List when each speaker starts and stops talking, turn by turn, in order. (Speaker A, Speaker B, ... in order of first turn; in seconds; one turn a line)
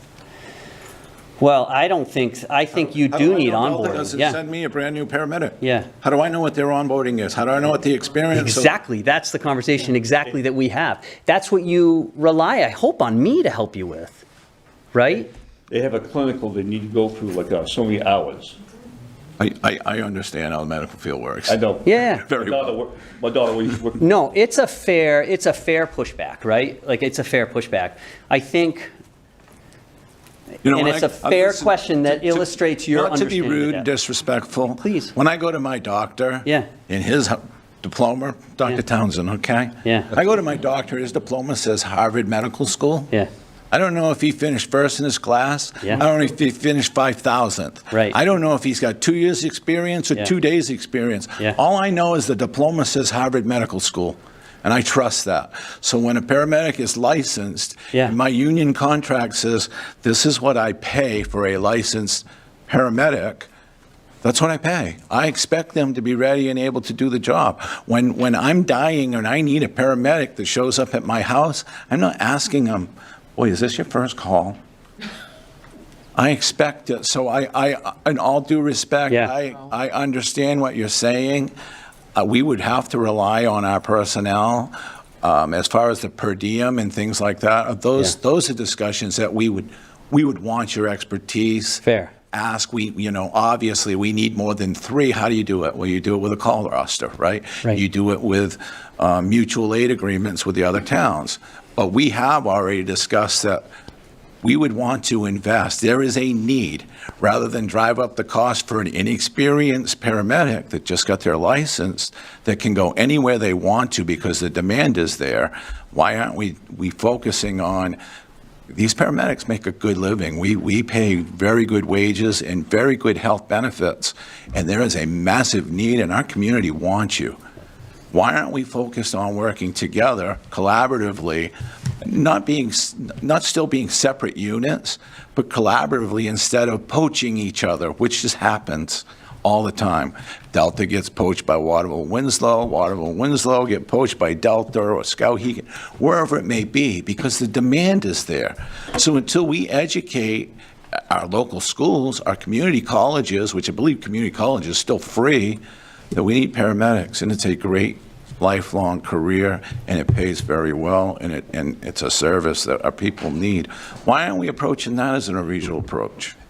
Speaker A: 1.4-4.4
Speaker B: 2.8-8.7
Speaker A: 5.6-5.9
Speaker A: 8.3-14.2
Speaker A: 14.9-15.3
Speaker C: 15.7-18.6
Speaker B: 19.4-21.6
Speaker C: 21.5-24.0
Speaker A: 21.8-22.3
Speaker B: 22.2-22.7
Speaker A: 24.0-28.9
Speaker B: 30.6-43.1
Speaker A: 30.6-33.9
Speaker A: 34.8-35.1
Speaker A: 36.4-36.7
Speaker A: 39.8-40.1
Speaker B: 43.7-63.5
Speaker A: 47.9-48.1
Speaker B: 64.2-74.6
Speaker B: 76.1-81.5
Speaker B: 82.1-103.6
Speaker A: 91.8-92.1
Speaker B: 104.4-118.0
Speaker B: 118.7-127.4
Speaker B: 128.1-150.5
Speaker B: 151.1-155.6
Speaker B: 156.1-166.3